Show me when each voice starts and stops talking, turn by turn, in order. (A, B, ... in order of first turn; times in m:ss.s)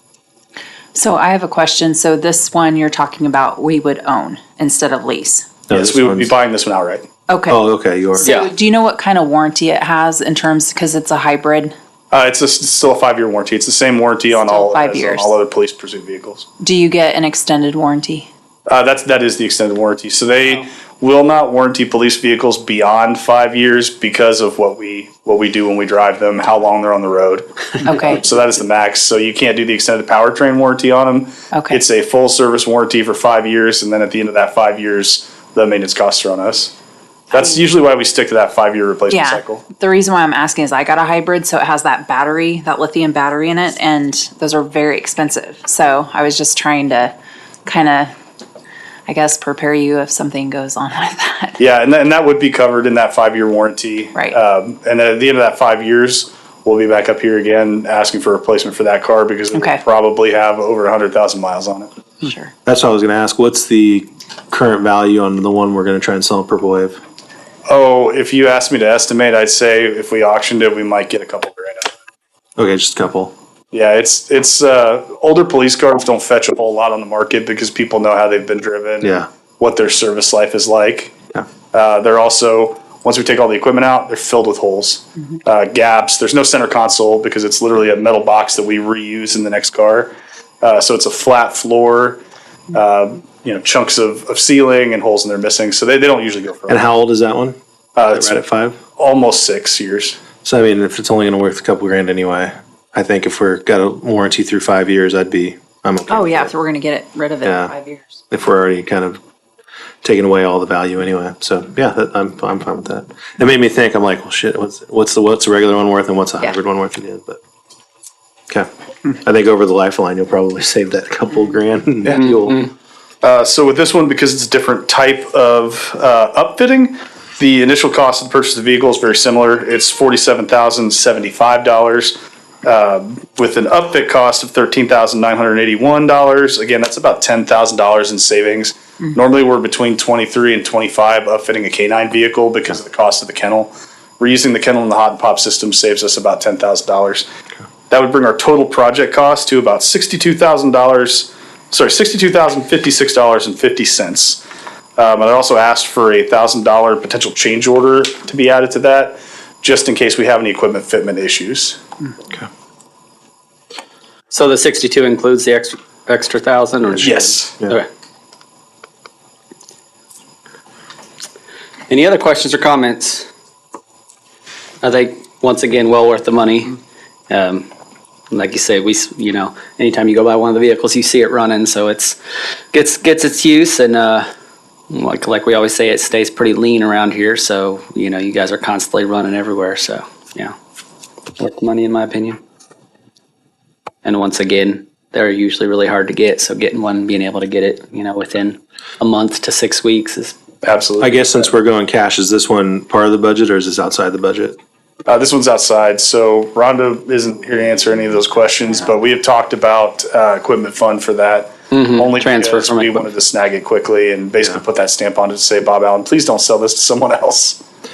0:00.9-0:05.4 A
0:05.7-0:06.3 B
0:05.7-0:07.1 C
0:07.3-0:07.6 A
0:07.5-0:08.4 B
0:08.2-0:11.7 A
0:08.2-0:08.5 D
0:12.1-0:16.5 C
0:14.3-0:15.3 A
0:16.6-0:18.3 A
0:18.7-0:36.7 C
0:27.8-0:28.2 A
0:31.5-0:31.8 A
0:37.3-0:39.6 C
0:37.3-0:37.6 A
0:39.1-0:47.1 A
0:47.6-0:48.1 A
0:49.1-0:51.6 A
0:51.6-1:01.9 C
0:59.5-0:59.8 A
1:02.2-1:02.5 A
1:02.6-1:07.0 B
1:07.7-1:11.9 C
1:12.6-1:13.3 B
1:13.7-1:21.2 C
1:19.0-1:19.3 B
1:21.7-1:32.2 C
1:32.7-1:36.9 C
1:36.7-1:37.6 B
1:38.0-1:38.4 C
1:38.1-1:38.8 B
1:39.0-1:40.2 C
1:40.4-1:46.5 B
1:46.1-1:48.2 A
1:47.4-1:47.7 B
1:48.3-1:49.2 B
1:50.0-1:57.4 B
1:59.2-2:02.7 B
2:03.2-2:27.3 C
2:27.9-2:34.4 C
2:35.0-2:41.8 C
2:44.3-2:47.9 D
2:47.0-2:47.6 C
2:51.9-2:53.3 D
2:54.8-2:57.7 D
2:58.3-3:02.2 D
3:02.7-3:04.3 D
3:04.9-3:10.6 D
3:11.4-3:12.4 D
3:14.0-3:20.3 D
3:20.6-3:21.4 C
3:21.0-3:24.6 B
3:25.0-3:37.6 C
3:31.7-3:33.1 D